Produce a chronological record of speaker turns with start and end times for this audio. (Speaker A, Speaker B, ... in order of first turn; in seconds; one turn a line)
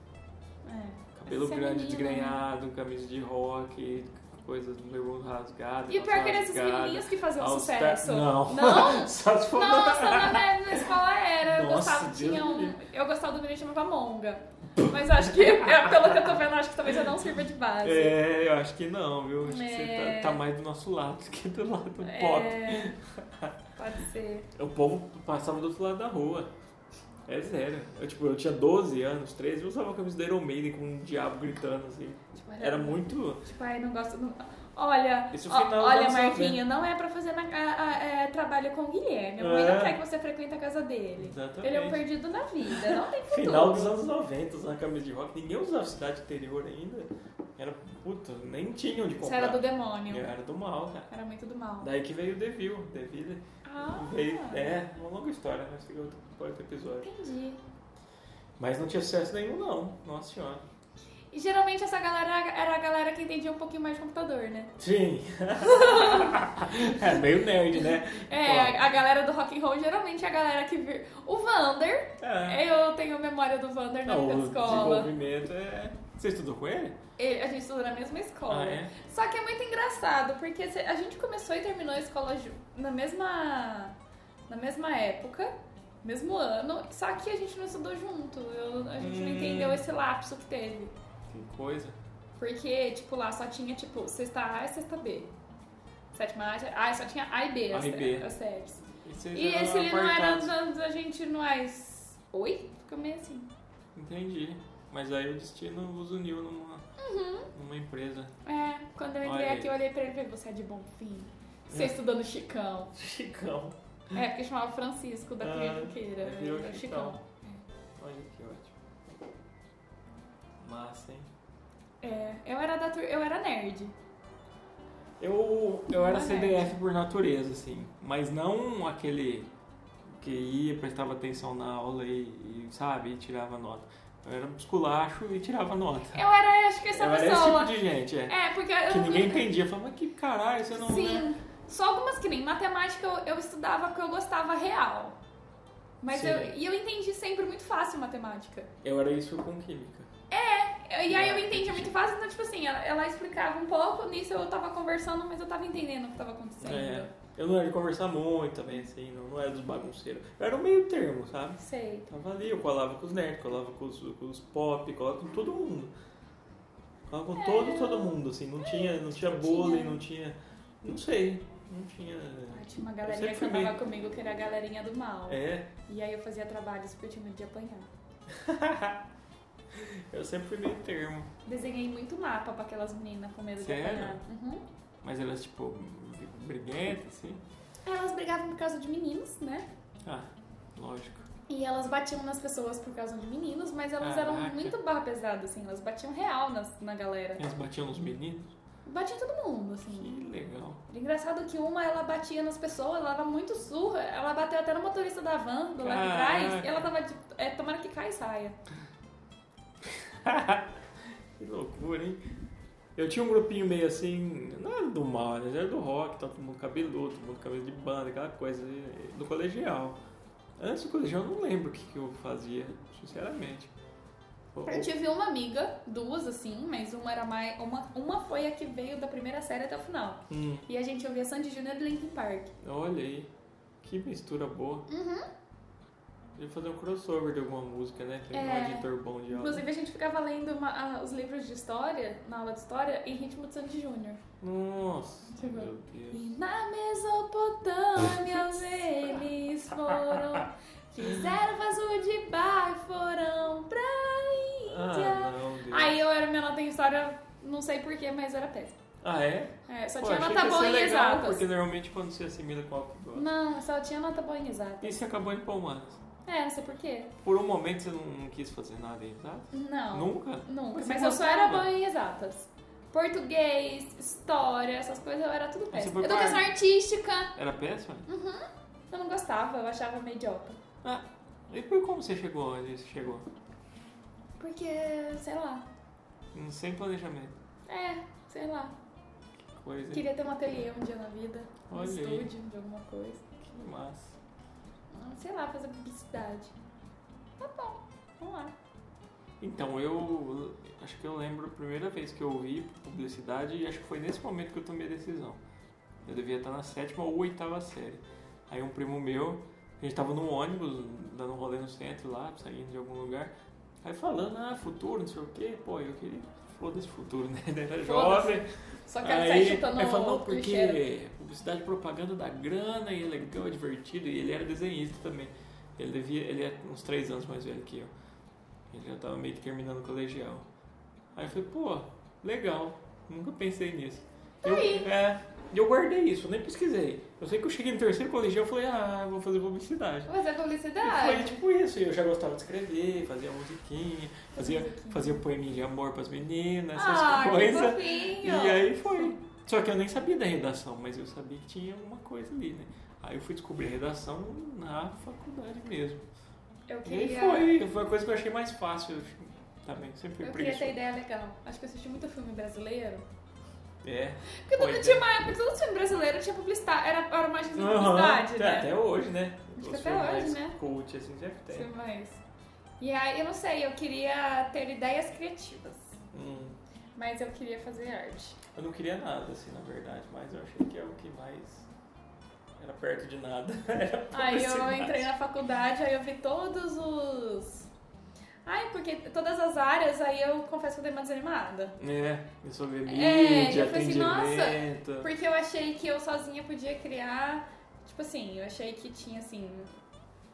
Speaker A: 0.6-2.4
Speaker B: 1.1-10.9
Speaker A: 5.9-18.2
Speaker B: 11.4-12.8
Speaker B: 14.8-17.1
Speaker B: 17.8-23.6
Speaker A: 19.4-20.4
Speaker A: 22.0-22.9
Speaker A: 23.8-24.5
Speaker B: 24.6-26.5
Speaker B: 27.2-33.4
Speaker A: 32.3-44.0
Speaker B: 35.3-36.6
Speaker B: 39.4-40.0
Speaker B: 41.1-42.0
Speaker B: 42.7-51.1
Speaker A: 49.2-50.3
Speaker A: 51.1-51.9
Speaker B: 51.8-57.1
Speaker A: 53.6-54.8
Speaker A: 57.0-57.6
Speaker B: 58.6-60.6
Speaker A: 61.3-64.7
Speaker B: 64.8-68.8
Speaker A: 65.6-67.2
Speaker A: 67.7-75.1
Speaker B: 72.2-72.6
Speaker B: 74.0-77.0
Speaker A: 77.2-84.0
Speaker B: 78.5-78.9
Speaker A: 84.5-90.9
Speaker B: 89.0-89.8
Speaker B: 91.3-92.0
Speaker A: 92.4-95.3
Speaker A: 96.1-103.5
Speaker B: 97.7-98.3
Speaker B: 99.0-100.5
Speaker B: 103.9-106.8
Speaker A: 107.0-107.5
Speaker B: 107.5-108.3
Speaker A: 108.4-112.9
Speaker B: 109.2-109.8
Speaker B: 111.7-112.0
Speaker B: 112.9-114.2
Speaker A: 114.1-117.6
Speaker B: 115.4-117.2
Speaker B: 118.0-118.7
Speaker B: 120.6-121.3
Speaker A: 122.0-123.9
Speaker B: 125.2-129.5
Speaker A: 125.9-126.8
Speaker B: 130.1-136.2
Speaker A: 136.1-139.5
Speaker B: 136.9-141.3
Speaker A: 140.7-145.2
Speaker A: 146.0-148.7
Speaker B: 146.1-146.5
Speaker B: 148.8-150.1
Speaker A: 150.3-157.1
Speaker B: 151.1-152.0
Speaker B: 156.6-165.9
Speaker A: 161.6-162.1
Speaker B: 167.1-173.8
Speaker A: 167.3-170.0
Speaker A: 172.5-177.9
Speaker B: 175.3-175.7
Speaker B: 178.3-179.0
Speaker B: 179.7-181.3
Speaker A: 181.4-184.6
Speaker B: 183.6-184.2
Speaker B: 185.0-187.4
Speaker A: 187.8-189.7
Speaker B: 190.0-191.3
Speaker A: 191.5-197.4
Speaker B: 194.0-194.8
Speaker B: 197.4-198.5
Speaker A: 198.8-200.2
Speaker B: 199.9-200.8
Speaker A: 200.9-208.6
Speaker B: 205.8-206.8
Speaker B: 209.8-210.8
Speaker B: 211.4-212.2
Speaker B: 212.9-220.0
Speaker B: 220.6-223.7
Speaker B: 224.5-224.9
Speaker A: 224.7-232.5
Speaker B: 230.3-230.7
Speaker B: 232.6-233.3
Speaker B: 233.8-234.8
Speaker A: 234.9-235.3
Speaker B: 236.4-239.6
Speaker A: 238.3-244.2
Speaker B: 244.4-246.3
Speaker A: 245.3-258.8
Speaker B: 248.0-249.2
Speaker B: 249.8-250.4
Speaker B: 254.7-256.0
Speaker B: 259.0-263.3
Speaker A: 259.7-261.5
Speaker A: 263.1-265.1
Speaker B: 264.8-266.0
Speaker A: 266.2-267.1
Speaker B: 267.2-271.7
Speaker A: 269.5-277.3
Speaker B: 275.7-276.5
Speaker B: 277.3-278.1
Speaker A: 278.1-280.6
Speaker B: 280.8-283.2
Speaker A: 284.4-285.6
Speaker B: 286.3-287.3
Speaker A: 287.7-288.7
Speaker B: 289.6-290.1
Speaker A: 289.9-293.2
Speaker B: 291.7-292.3
Speaker B: 293.4-294.2
Speaker A: 294.9-296.5
Speaker A: 297.4-298.5
Speaker B: 299.4-305.4
Speaker B: 306.0-318.5
Speaker A: 317.8-320.8
Speaker B: 319.0-327.9
Speaker B: 328.7-330.4
Speaker B: 331.1-340.1
Speaker A: 334.4-334.9
Speaker A: 340.1-341.3
Speaker B: 340.8-356.0
Speaker A: 344.4-345.2
Speaker A: 346.7-349.2
Speaker A: 356.7-357.6
Speaker B: 356.9-360.8
Speaker A: 360.2-363.0
Speaker B: 363.8-365.1
Speaker A: 364.4-368.7
Speaker B: 367.5-371.7
Speaker A: 369.6-370.6
Speaker A: 371.5-372.2
Speaker A: 372.8-376.0
Speaker B: 376.1-376.6
Speaker A: 376.9-378.4
Speaker B: 378.5-381.7
Speaker B: 382.6-385.1
Speaker A: 384.1-387.7
Speaker A: 388.4-391.8
Speaker B: 391.8-395.1
Speaker A: 392.9-399.7